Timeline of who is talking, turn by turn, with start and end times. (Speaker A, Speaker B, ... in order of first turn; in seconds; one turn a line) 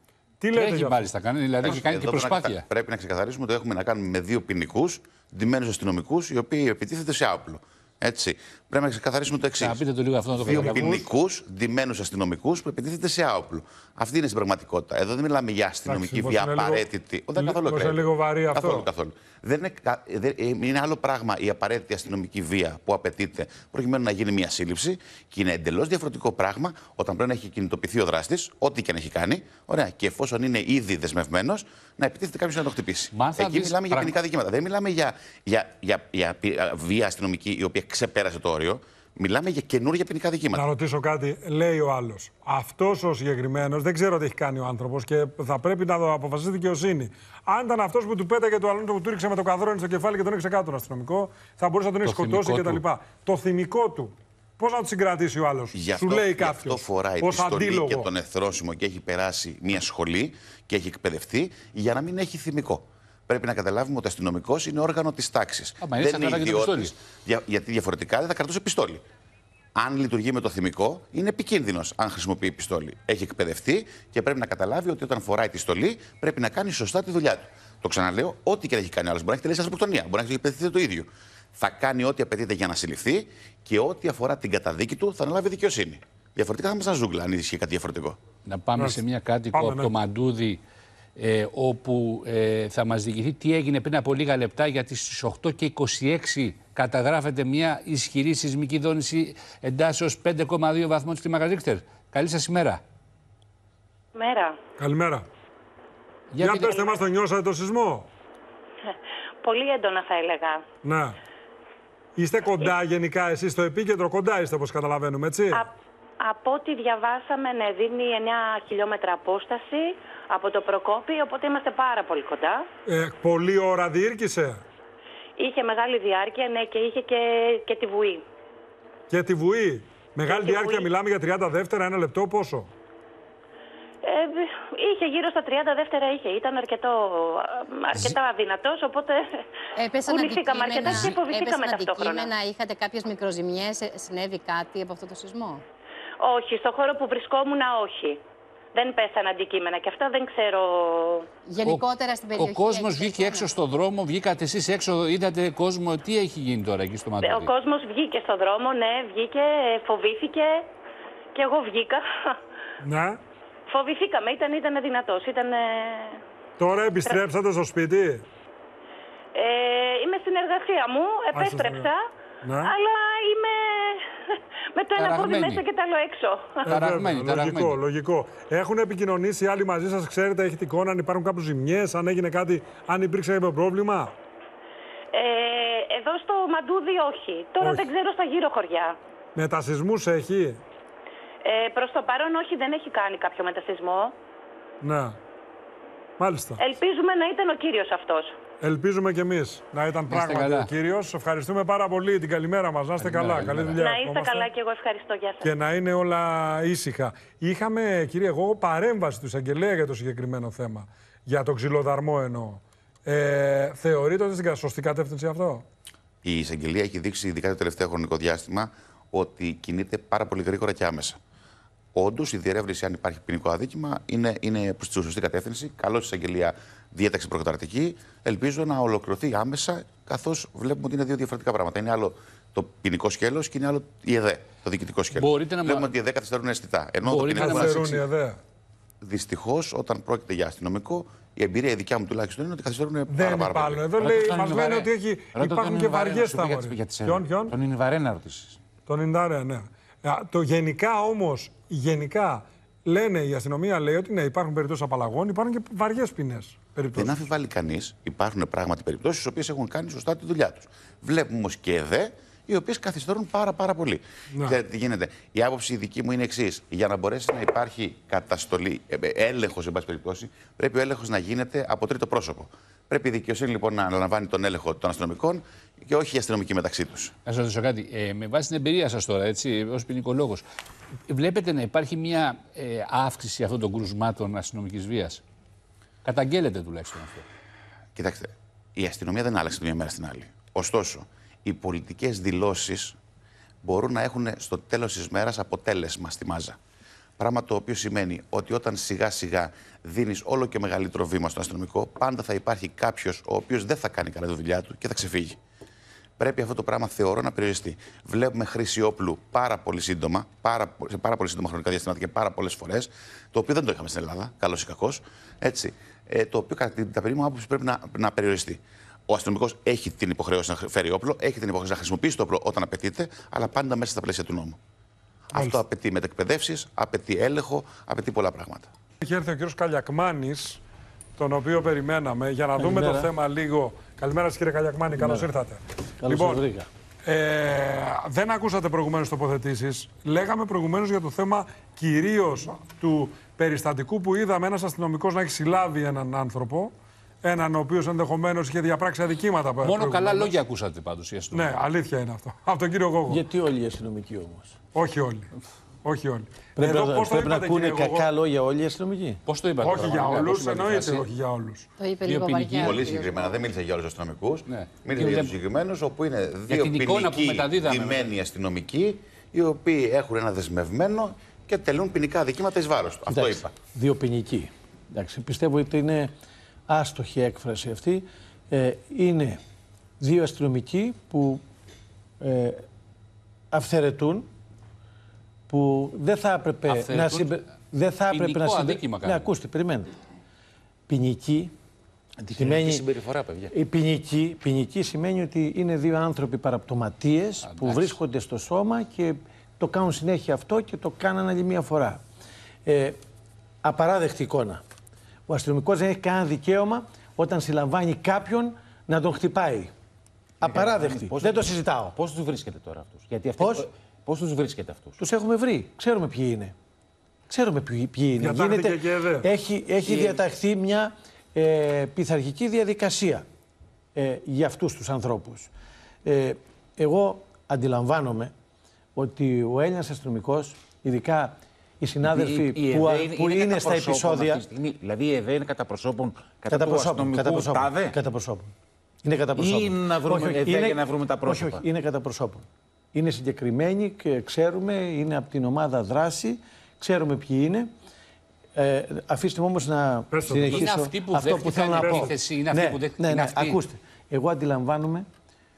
Speaker A: 0.4-1.1
Speaker B: 0.5-2.6
Speaker C: 1.6-9.8
Speaker B: 9.6-11.0
Speaker C: 10.4-40.7
Speaker A: 10.4-11.0
Speaker A: 15.9-18.9
Speaker B: 33.1-34.2
Speaker A: 40.5-58.1
Speaker B: 52.0-52.8
Speaker C: 55.7-69.0
Speaker B: 65.8-66.9
Speaker C: 69.8-88.2
Speaker B: 88.5-90.6
Speaker A: 88.8-89.9
Speaker B: 91.2-102.8
Speaker D: 104.2-104.6
Speaker A: 104.8-105.3
Speaker B: 106.3-106.8
Speaker A: 106.4-108.1
Speaker D: 109.4-110.6
Speaker A: 110.8-111.2
Speaker A: 112.2-115.7
Speaker D: 115.5-122.7
Speaker A: 122.9-124.6
Speaker D: 125.4-128.2
Speaker A: 129.1-132.7
Speaker D: 130.3-130.9
Speaker D: 134.0-139.3
Speaker E: 139.8-145.6
Speaker D: 140.1-142.3
Speaker D: 146.2-148.2
Speaker D: 148.8-151.3
Speaker E: 151.5-153.5
Speaker B: 151.7-157.5
Speaker D: 157.2-160.7
Speaker D: 161.3-162.3
Speaker A: 162.8-163.2
Speaker D: 163.7-166.2
Speaker A: 166.6-168.3
Speaker D: 169.3-172.0
Speaker A: 171.3-171.9
Speaker A: 172.4-172.8
Speaker D: 172.6-176.7
Speaker B: 175.0-175.6
Speaker A: 176.7-184.2
Speaker B: 176.7-177.8
Speaker D: 185.1-189.0
Speaker A: 187.6-187.9
Speaker A: 189.3-190.6
Speaker D: 191.4-194.1
Speaker A: 194.8-195.2
Speaker A: 196.2-196.6
Speaker D: 196.6-198.3
Speaker A: 198.6-204.5
Speaker B: 200.1-200.7
Speaker B: 203.0-203.9
Speaker D: 203.8-205.5
Speaker A: 205.4-215.7
Speaker C: 216.2-221.2
Speaker C: 221.9-237.9
Speaker B: 235.1-235.9
Speaker B: 237.0-238.1
Speaker A: 237.3-238.4
Speaker C: 239.0-243.9
Speaker A: 243.1-247.6
Speaker F: 244.1-248.6
Speaker A: 248.9-257.3
Speaker C: 256.9-277.1
Speaker B: 277.2-280.4
Speaker B: 281.1-285.2
Speaker B: 286.0-287.2
Speaker C: 288.0-293.0
Speaker C: 293.6-296.6
Speaker C: 297.2-305.4
Speaker C: 306.2-324.6
Speaker C: 325.3-328.7
Speaker A: 325.3-325.6
Speaker A: 329.0-330.6
Speaker A: 331.2-336.4
Speaker G: 332.6-333.1
Speaker G: 334.9-335.3
Speaker G: 336.0-336.7
Speaker A: 337.1-350.4
Speaker B: 349.6-351.5
Speaker A: 351.3-353.2
Speaker G: 353.1-354.6
Speaker A: 354.8-355.3
Speaker A: 355.8-358.1
Speaker G: 356.6-359.2
Speaker B: 359.3-361.1
Speaker A: 359.6-361.7
Speaker E: 361.8-363.4
Speaker B: 362.0-363.0
Speaker C: 362.6-373.5
Speaker B: 364.5-365.3
Speaker B: 366.5-368.1
Speaker G: 373.1-376.1
Speaker G: 376.7-379.4
Speaker G: 380.0-381.4
Speaker G: 382.2-382.6
Speaker G: 383.5-384.3
Speaker G: 385.5-389.9
Speaker B: 386.7-387.4
Speaker B: 388.1-389.3
Speaker G: 390.9-391.5
Speaker F: 392.2-393.5
Speaker G: 392.4-392.9
Speaker G: 393.5-402.0
Speaker B: 397.4-398.0
Speaker G: 402.7-403.0
Speaker G: 403.6-404.6
Speaker G: 405.3-409.7
Speaker G: 410.4-412.0
Speaker F: 410.4-415.0
Speaker G: 413.4-413.7
Speaker G: 415.0-416.5
Speaker G: 417.3-423.2
Speaker A: 418.2-419.2
Speaker F: 419.8-420.2
Speaker G: 424.0-425.5
Speaker G: 426.1-428.3
Speaker G: 428.9-434.5
Speaker F: 432.0-438.0
Speaker G: 436.5-447.7
Speaker F: 439.3-441.6
Speaker G: 448.6-455.1
Speaker A: 450.1-450.6
Speaker B: 450.5-453.6
Speaker A: 451.7-452.1